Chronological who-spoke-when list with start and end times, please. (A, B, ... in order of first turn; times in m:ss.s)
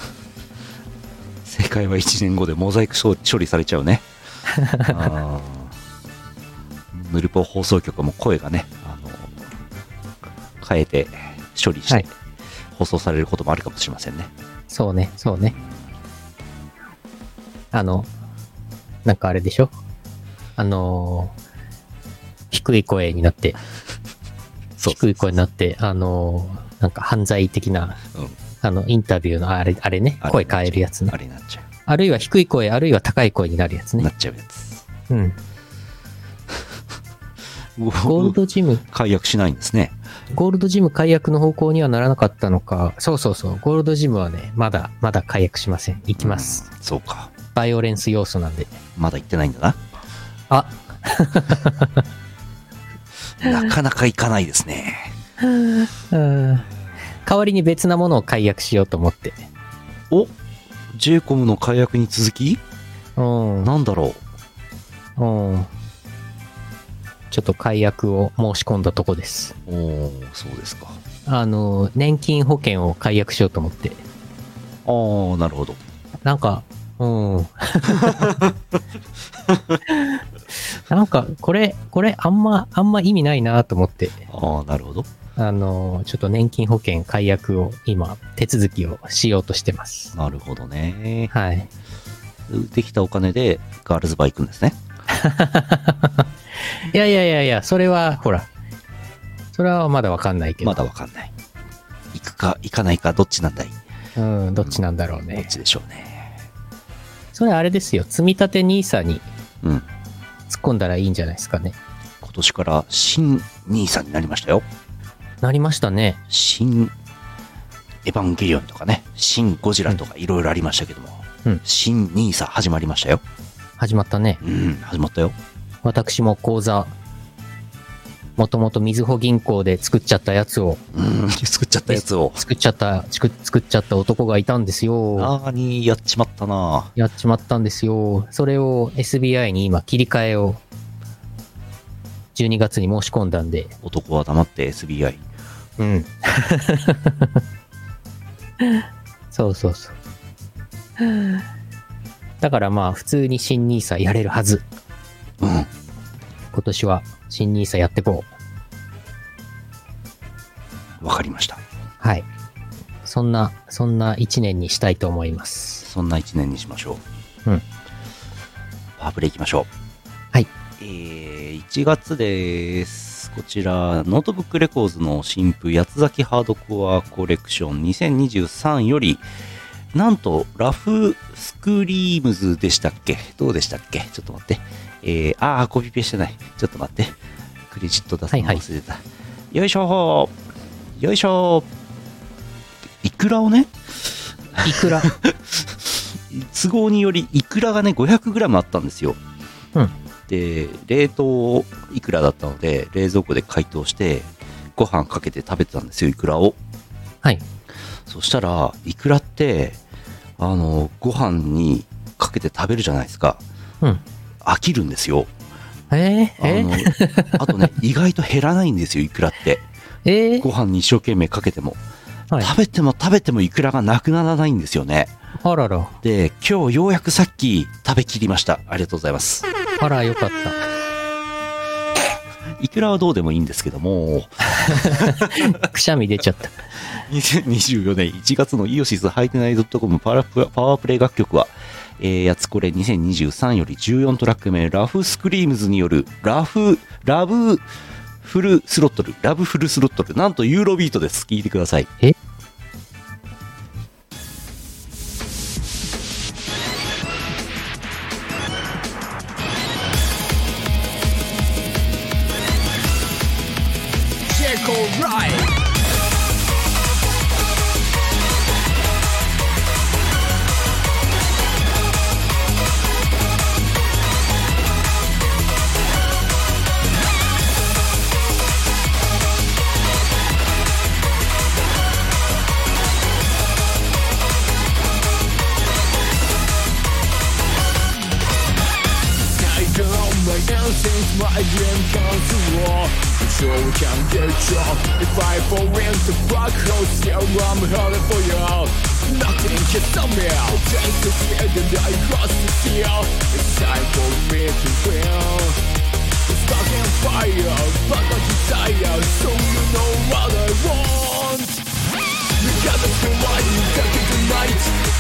0:01.4-0:04.0 A
0:04.6-0:05.0 B
0:04.8-0:05.7 A
0:06.9-0:09.5 A
0:10.6-0:12.1 A
0:12.7-0:14.3 A
0:14.7-0:15.6 B
0:15.6-0:15.8 A
0:17.7-0:18.1 B
0:19.0-0:19.7 B
0:20.6-0:21.3 B
0:22.5-0:23.6 B
0:24.8-0:25.3 A
0:24.9-0:28.0 B
0:28.6-0:31.2 B
0:30.2-0:31.6 A
0:31.9-0:34.1 B
0:34.0-0:34.8 A
0:35.1-0:35.4 B
0:37.8-0:38.4 A
0:38.0-0:38.8 B
0:38.9-0:40.0 A
0:40.3-0:46.6 B
0:46.2-0:47.3 A
0:47.6-0:48.8 B
0:49.0-0:49.8 A
0:50.5-0:52.0 B
0:53.4-0:55.1 A
0:55.4-0:56.7 B
0:57.2-0:59.5 B
1:00.9-1:02.6 A
1:03.2-1:03.7 B
1:03.6-1:04.2 A
1:05.2-1:05.7 B
1:07.3-1:09.6 B
1:09.7-1:11.0 A
1:11.3-1:14.0 B
1:14.8-1:15.8 A
1:16.2-1:18.4 B
1:18.0-1:18.5 A
1:19.5-1:19.8 A
1:19.9-1:20.2 B
1:20.9-1:24.2 B
1:24.3-1:25.1 A
1:25.4-1:30.1 B
1:30.1-1:31.3 A
1:31.3-1:31.7 B
1:32.5-1:34.8 A
1:35.1-1:36.3 B
1:36.9-1:38.5 B
1:39.5-1:40.8 B
1:40.6-1:41.3 A
1:42.1-1:43.8 A
1:44.2-1:45.5 B
1:45.4-1:46.4 A
1:47.3-1:49.2 B
1:49.6-1:49.9 A
1:50.5-1:51.8 B
1:52.2-1:54.6 A
1:55.4-1:56.2 B
1:56.3-1:56.9 A
1:58.0-2:03.2 A
2:03.8-2:04.4 B
2:04.4-2:05.4 A
2:05.8-2:06.9 B
2:08.4-2:10.8 B
2:10.9-2:12.4 A
2:11.9-2:15.3 B
2:15.2-2:16.9 A
2:17.0-2:20.6 B
2:22.4-2:23.7 B
2:23.8-2:25.2 A
2:25.8-2:27.4 B
2:28.6-2:30.0 B
2:31.0-2:31.4 B
2:32.4-2:34.6 B
2:35.4-2:35.7 A
2:36.5-2:38.3 B
2:41.0-2:41.6 A
2:42.0-2:42.3 B
2:43.0-2:45.8 B
2:45.8-2:47.0 A
2:49.0-2:49.7 A
2:50.8-2:59.2 A
2:59.9-3:07.2 A
3:07.7-3:10.3 A
3:08.3-3:08.6 B
3:11.0-3:11.7 A
3:13.0-3:13.7 A
3:14.6-3:19.2 A
3:14.6-3:15.1 B
3:20.3-3:26.6 A
3:28.1-3:29.8 A
3:30.4-3:33.4 A
3:34.4-3:35.3 A
3:35.9-3:37.7 B
3:36.4-3:39.6 A
3:40.0-3:40.5 B
3:40.4-3:41.8 A
3:42.4-3:45.1 A
3:45.4-3:45.9 B
3:46.0-3:49.5 A
3:49.8-3:50.6 B
3:52.6-3:55.6 A
3:54.6-3:56.6 B
3:57.1-4:07.6 A
4:08.2-4:11.9 A
4:24.3-4:25.6 C
4:49.2-5:05.6 C
5:06.3-5:11.6 C
5:12.4-5:14.8 C